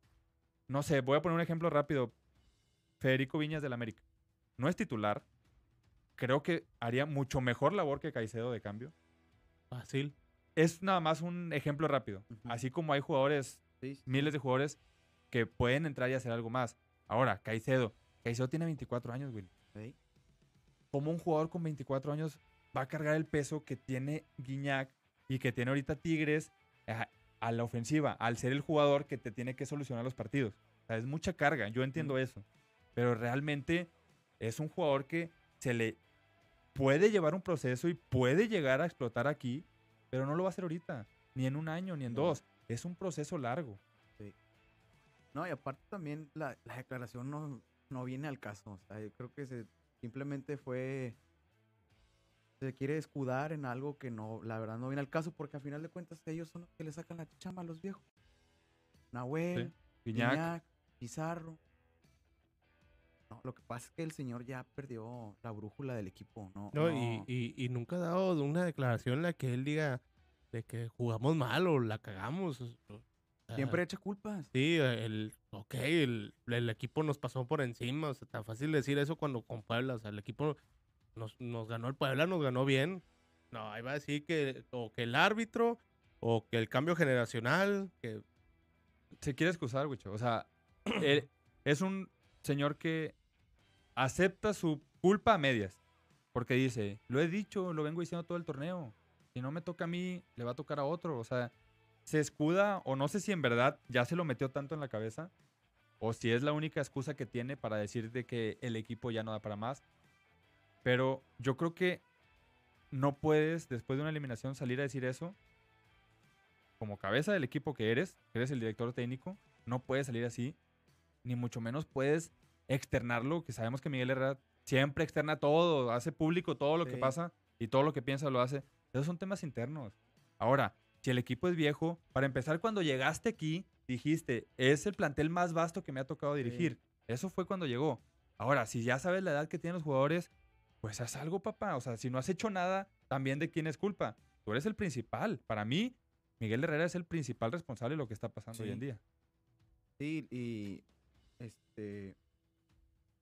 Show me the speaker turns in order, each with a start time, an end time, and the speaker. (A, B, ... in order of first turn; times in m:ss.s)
0:00.7-0:02.1 A
0:03.0-0:04.0 A
0:04.6-0:05.2 A
0:06.2-0:08.9 A
0:09.7-0:10.1 B
0:10.6-0:14.8 A
0:12.3-0:12.6 C
0:13.8-0:14.3 C
0:15.3-0:19.5 A
0:20.9-0:32.4 A
0:33.0-0:36.0 A
0:36.7-0:43.8 A
0:42.1-0:42.3 C
0:45.3-0:51.2 C
0:52.6-0:58.0 C
0:59.1-1:01.6 C
0:59.5-1:00.5 A
1:03.3-1:07.2 C
1:06.7-1:13.8 B
1:13.5-1:14.5 C
1:14.5-1:20.6 B
1:21.2-1:28.2 B
1:29.2-1:33.1 A
1:34.0-1:35.8 A
1:36.3-1:41.5 A
1:42.1-1:45.3 A
1:46.0-1:49.8 A
1:50.8-1:52.0 A
1:52.9-1:55.4 A
1:56.8-2:00.6 A
2:01.2-2:20.3 A
2:06.8-2:07.1 C
2:16.4-2:16.7 C
2:20.8-2:29.0 A
2:28.5-2:28.8 C
2:30.0-2:30.8 C
2:31.4-2:32.2 C